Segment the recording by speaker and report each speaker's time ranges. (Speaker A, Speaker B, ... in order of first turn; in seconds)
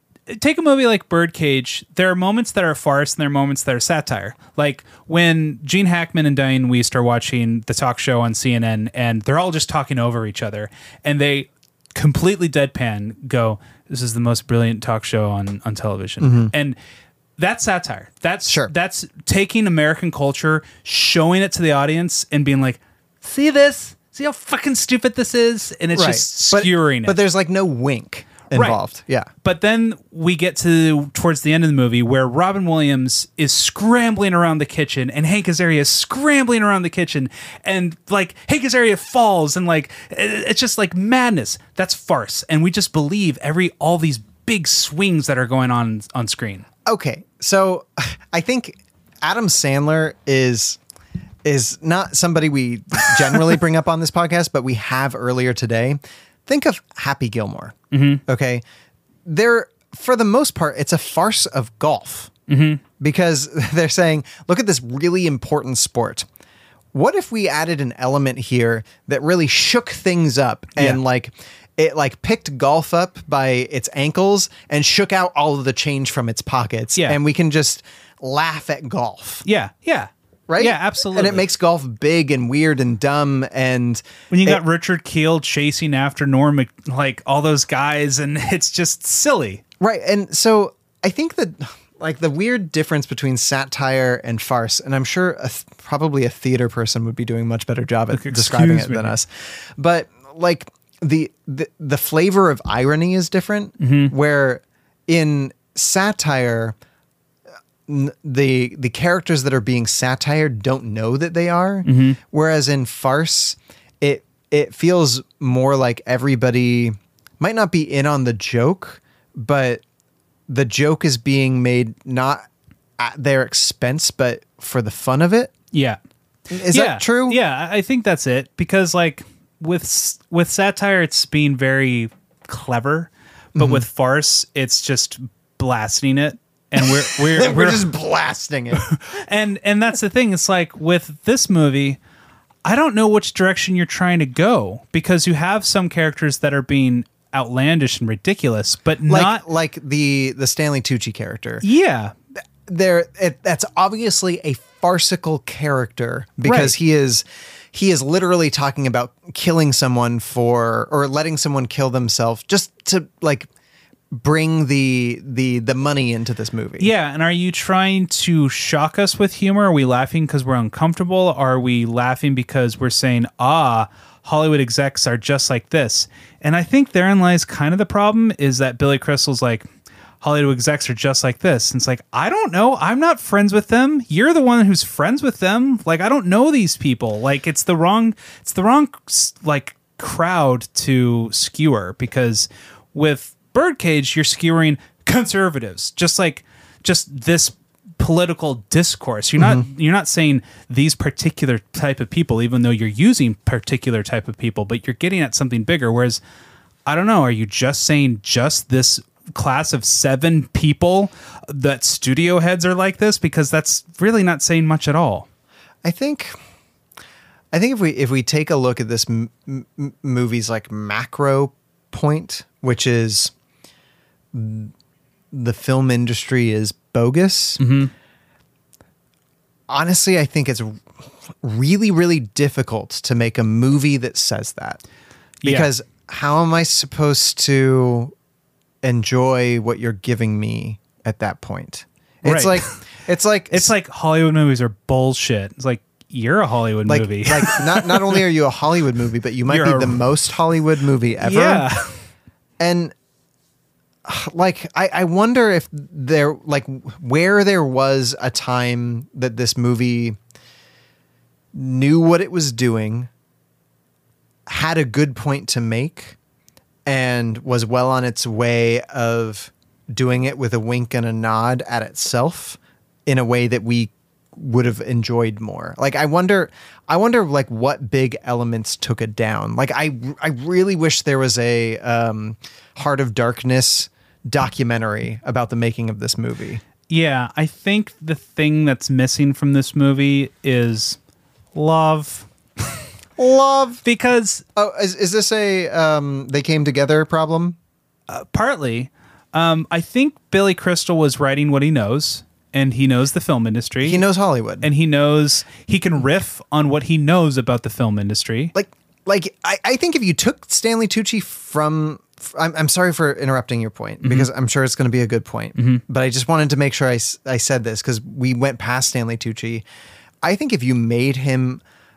Speaker A: 0.3-16.8, 17.4-27.2, 28.5-28.8, 29.4-46.6, 57.9-58.2, 62.5-62.8, 79.4-81.5, 84.3-89.6, 98.1-99.2, 103.8-104.1, 111.8-112.2, 125.7-126.0, 126.7-137.9, 138.8-142.0, 142.6-149.4, 151.6-152.1, 156.4-156.7, 166.8-179.7, 180.2-206.2, 206.8-215.3, 227.6-227.9, 235.4-235.7, 242.2-242.6, 243.5-248.2, 249.5-250.0, 251.2-251.9, 286.9-291.0, 291.5-292.3, 293.8-294.4, 298.1-304.0, 304.6-308.5, 314.0-314.3, 315.6-315.8
Speaker B: 16.2-16.5, 18.4-18.7, 25.9-29.3, 46.9-50.8, 51.4-58.6, 59.2-62.3, 63.0-66.3, 66.9-79.4, 80.5-84.6, 89.8-106.8, 107.9-119.8, 120.5-122.5, 123.0-125.5, 126.5-127.4, 133.6-133.8, 136.8-138.9, 149.1-151.6, 152.7-163.5, 164.1-166.9, 199.4-199.7, 215.8-216.3, 217.5-223.3, 224.3-224.7, 225.3-227.6, 229.7-230.8, 231.4-234.8, 235.4-238.1, 238.8-243.7, 246.8-251.7, 252.6-252.9, 254.0-260.2, 261.5-263.1, 264.5-266.1, 266.9-286.6, 293.2-293.8, 294.6-297.6, 303.8-304.7, 308.5-319.6, 320.2-321.6